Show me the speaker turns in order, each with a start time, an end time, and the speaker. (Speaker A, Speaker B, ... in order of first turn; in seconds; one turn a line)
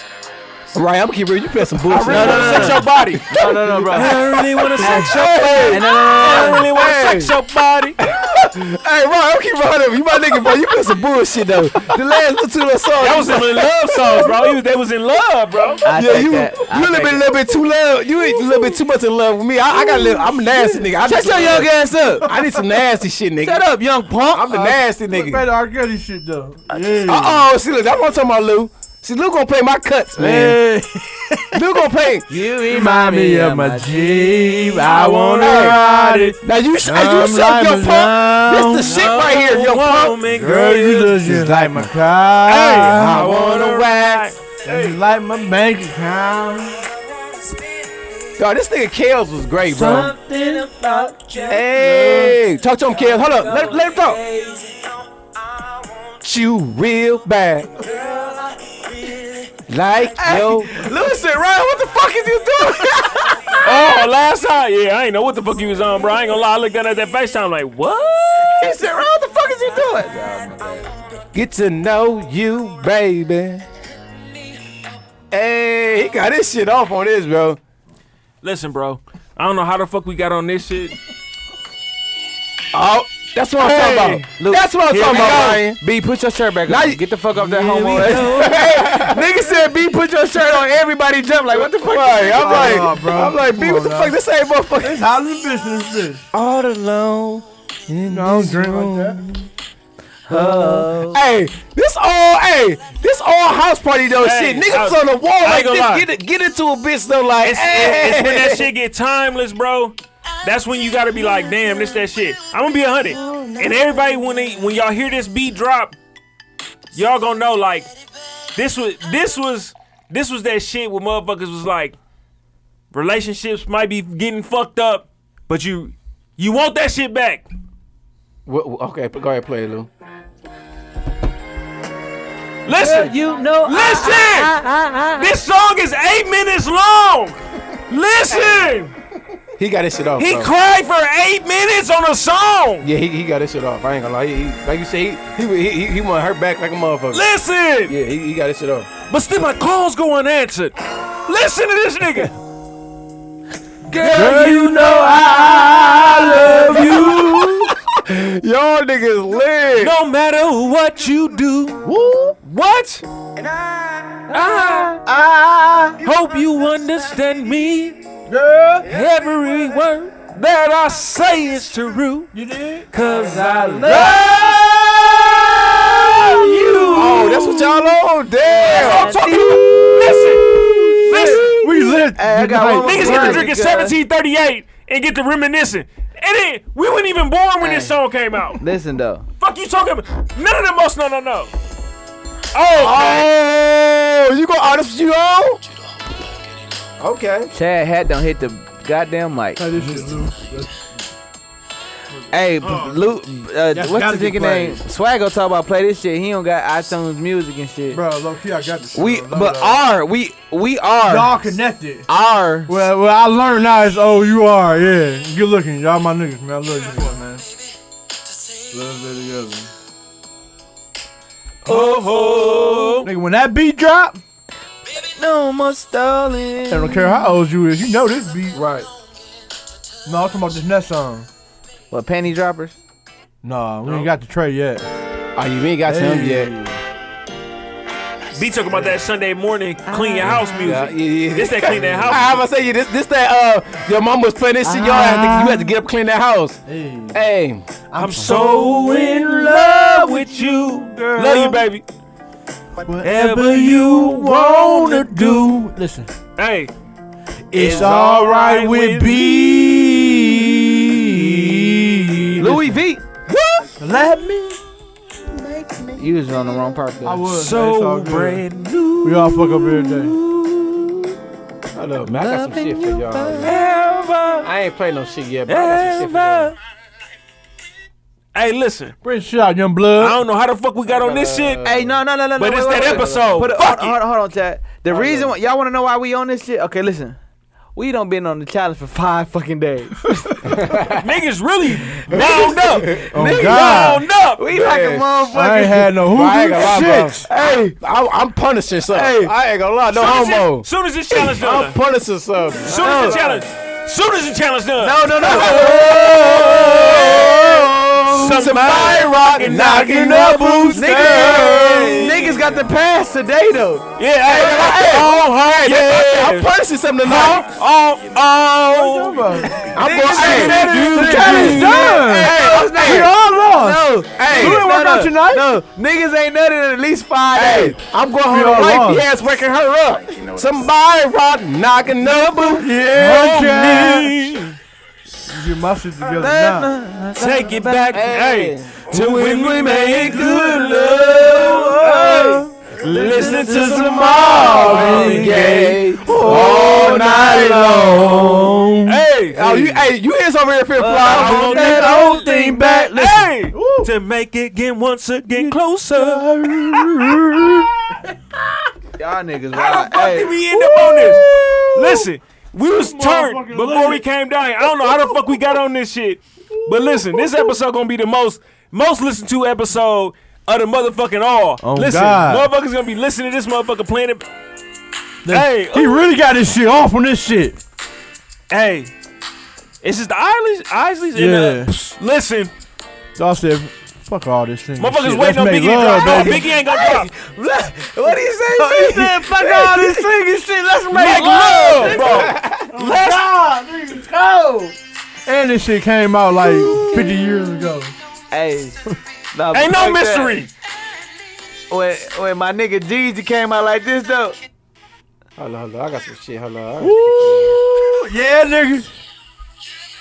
Speaker A: 0.7-7.3
Speaker B: 1.9-3.3
Speaker C: 2.1-4.2
Speaker B: 3.9-8.0
Speaker C: 4.8-5.1
Speaker C: 5.7-6.7
Speaker A: 8.0-14.6
Speaker C: 11.9-12.3
Speaker B: 13.0-15.8
Speaker C: 15.8-17.2
Speaker A: 15.9-21.7
Speaker D: 19.9-20.9
Speaker C: 21.0-22.3
Speaker A: 22.2-23.6
Speaker D: 22.2-22.5
Speaker C: 23.4-24.5
Speaker A: 24.3-25.5
Speaker D: 24.5-27.4
Speaker A: 27.1-30.6
Speaker D: 30.2-31.6
Speaker A: 31.5-32.3
Speaker C: 32.3-36.4
Speaker D: 32.7-39.1
Speaker A: 35.4-35.8
Speaker A: 36.4-40.2
Speaker B: 38.9-41.3
Speaker D: 40.3-43.3
Speaker A: 41.2-41.9
Speaker B: 42.5-45.0
Speaker A: 42.9-44.3
Speaker D: 44.6-46.8
Speaker A: 48.4-50.1
Speaker C: 49.7-52.3
Speaker A: 51.5-54.2
Speaker C: 52.9-54.8
Speaker A: 56.2-57.7
Speaker C: 57.9-58.5
Speaker A: 59.7-60.9
Speaker C: 60.2-63.7
Speaker B: 63.6-68.5
Speaker C: 68.5-70.9
Speaker A: 71.3-73.7
Speaker A: 75.3-77.6
Speaker B: 78.4-81.0
Speaker A: 82.7-85.8
Speaker B: 83.6-84.3
Speaker C: 84.4-92.9
Speaker B: 84.9-85.6
Speaker A: 86.7-87.0
Speaker B: 87.4-88.8
Speaker A: 87.9-89.3
Speaker A: 91.5-95.0
Speaker D: 92.3-94.2
Speaker D: 94.8-96.2
Speaker A: 96.3-99.5
Speaker D: 98.1-99.2
Speaker C: 100.3-101.2
Speaker A: 100.3-108.7
Speaker B: 104.2-106.1
Speaker B: 107.4-116.0
Speaker A: 113.1-113.9
Speaker B: 117.0-117.9
Speaker B: 118.5-122.0
Speaker B: 122.9-127.5
Speaker A: 128.5-129.9
Speaker B: 132.7-134.6
Speaker C: 132.7-135.3
Speaker B: 135.2-138.9
Speaker A: 138.3-138.7
Speaker A: 139.6-140.5
Speaker B: 140.2-142.9
Speaker A: 142.8-147.2
Speaker B: 147.1-147.9
Speaker A: 147.9-148.9
Speaker B: 149.1-152.3
Speaker B: 153.9-157.6
Speaker C: 153.9-154.6
Speaker D: 154.1-157.5
Speaker C: 155.3-157.4
Speaker A: 155.6-159.9
Speaker B: 159.8-161.9
Speaker D: 161.8-162.4
Speaker B: 162.4-163.0
Speaker B: 164.3-165.0
Speaker C: 165.0-166.0
Speaker B: 166.0-168.0
Speaker D: 168.3-168.9
Speaker B: 168.9-172.3
Speaker D: 172.3-172.9
Speaker B: 172.9-177.9
Speaker C: 173.6-174.2
Speaker D: 173.8-177.0
Speaker A: 176.9-179.2
Speaker C: 178.6-180.3
Speaker B: 178.6-181.6
Speaker D: 180.6-183.5
Speaker C: 181.1-183.9
Speaker B: 182.8-188.6
Speaker C: 187.6-187.9
Speaker C: 188.6-189.3
Speaker B: 189.4-191.5
Speaker B: 192.5-193.3
Speaker A: 192.7-195.6
Speaker A: 197.0-197.5
Speaker C: 197.5-199.6
Speaker D: 199.6-200.7
Speaker C: 202.3-208.0
Speaker B: 202.7-202.9
Speaker D: 203.7-204.8
Speaker D: 207.9-209.8
Speaker C: 208.9-211.3
Speaker D: 211.1-212.1
Speaker C: 212.1-212.7
Speaker D: 212.7-217.4
Speaker D: 218.7-219.7
Speaker B: 221.7-223.1
Speaker C: 221.7-223.0
Speaker D: 223.0-224.2
Speaker C: 224.9-227.3
Speaker D: 226.7-228.6
Speaker A: 228.5-228.9
Speaker D: 230.1-231.3
Speaker C: 231.9-232.8
Speaker D: 233.4-234.9
Speaker A: 235.4-236.5
Speaker D: 235.9-236.8
Speaker B: 238.4-242.3
Speaker C: 239.9-240.6
Speaker A: 240.4-246.6
Speaker D: 241.9-242.2
Speaker D: 244.7-245.7
Speaker D: 246.7-247.2
Speaker A: 247.1-248.4
Speaker D: 247.9-249.9
Speaker B: 247.9-251.8
Speaker D: 251.0-251.6
Speaker D: 252.8-256.1
Speaker B: 253.0-255.6
Speaker B: 256.4-256.7
Speaker D: 257.5-262.8
Speaker B: 257.5-260.1
Speaker B: 261.3-261.7
Speaker C: 262.4-263.0
Speaker B: 263.3-263.7
Speaker D: 263.8-264.6
Speaker C: 266.0-267.2
Speaker D: 267.0-268.4
Speaker B: 267.3-271.1
Speaker D: 269.0-270.2
Speaker A: 271.7-273.6
Speaker C: 272.1-273.5
Speaker B: 273.4-274.5
Speaker A: 274.4-276.5
Speaker B: 275.5-276.6
Speaker B: 278.3-279.0
Speaker D: 279.0-280.2
Speaker B: 280.0-281.6
Speaker A: 280.9-282.0
Speaker C: 281.6-287.2
Speaker B: 282.4-284.0
Speaker A: 284.9-285.3
Speaker C: 287.8-290.1
Speaker D: 290.3-290.6
Speaker A: 290.5-291.1
Speaker B: 290.9-294.4
Speaker A: 292.1-293.1
Speaker C: 293.0-295.9
Speaker D: 293.1-294.1
Speaker A: 294.5-295.1
Speaker D: 295.3-297.2
Speaker A: 296.1-303.4
Speaker C: 297.3-297.8
Speaker C: 298.9-299.3
Speaker B: 299.9-301.8
Speaker B: 302.7-307.4
Speaker C: 302.7-303.4
Speaker C: 304.8-307.3
Speaker A: 305.2-312.2
Speaker B: 308.1-312.3
Speaker D: 308.7-312.0
Speaker C: 310.8-314.6
Speaker B: 314.0-316.5
Speaker A: 314.2-317.5
Speaker B: 317.0-319.6
Speaker D: 318.7-325.5
Speaker A: 319.7-323.1
Speaker C: 319.8-327.8
Speaker B: 320.1-322.1
Speaker A: 324.2-324.6
Speaker A: 327.3-332.8
Speaker D: 328.3-329.1
Speaker D: 332.4-334.4
Speaker B: 332.9-334.6
Speaker D: 335.3-336.7
Speaker C: 336.0-338.1
Speaker B: 337.2-342.2
Speaker A: 337.9-340.4
Speaker C: 339.8-342.5
Speaker A: 341.8-348.6
Speaker B: 342.8-345.4
Speaker D: 342.9-349.0
Speaker C: 344.4-347.7
Speaker B: 348.9-349.8
Speaker A: 349.3-351.8
Speaker C: 350.8-352.9
Speaker B: 351.0-357.5
Speaker D: 351.5-353.9
Speaker D: 355.3-358.1
Speaker C: 359.0-360.4
Speaker B: 359.5-374.2
Speaker D: 360.5-362.1
Speaker D: 362.8-364.0
Speaker D: 364.6-365.6
Speaker D: 366.5-367.6
Speaker D: 371.6-372.5
Speaker D: 375.2-377.6
Speaker B: 375.3-376.1
Speaker B: 378.5-378.9
Speaker B: 379.8-382.5
Speaker D: 381.1-381.9
Speaker D: 383.2-386.5
Speaker B: 384.8-387.1
Speaker C: 386.0-389.9
Speaker D: 388.5-392.2
Speaker A: 389.2-390.0
Speaker A: 390.9-392.8
Speaker B: 390.9-393.3
Speaker C: 391.0-392.3
Speaker D: 392.7-397.9
Speaker C: 398.3-398.8
Speaker C: 399.3-400.5
Speaker B: 399.5-400.5
Speaker C: 401.7-404.4
Speaker A: 405.4-407.6
Speaker D: 406.8-408.9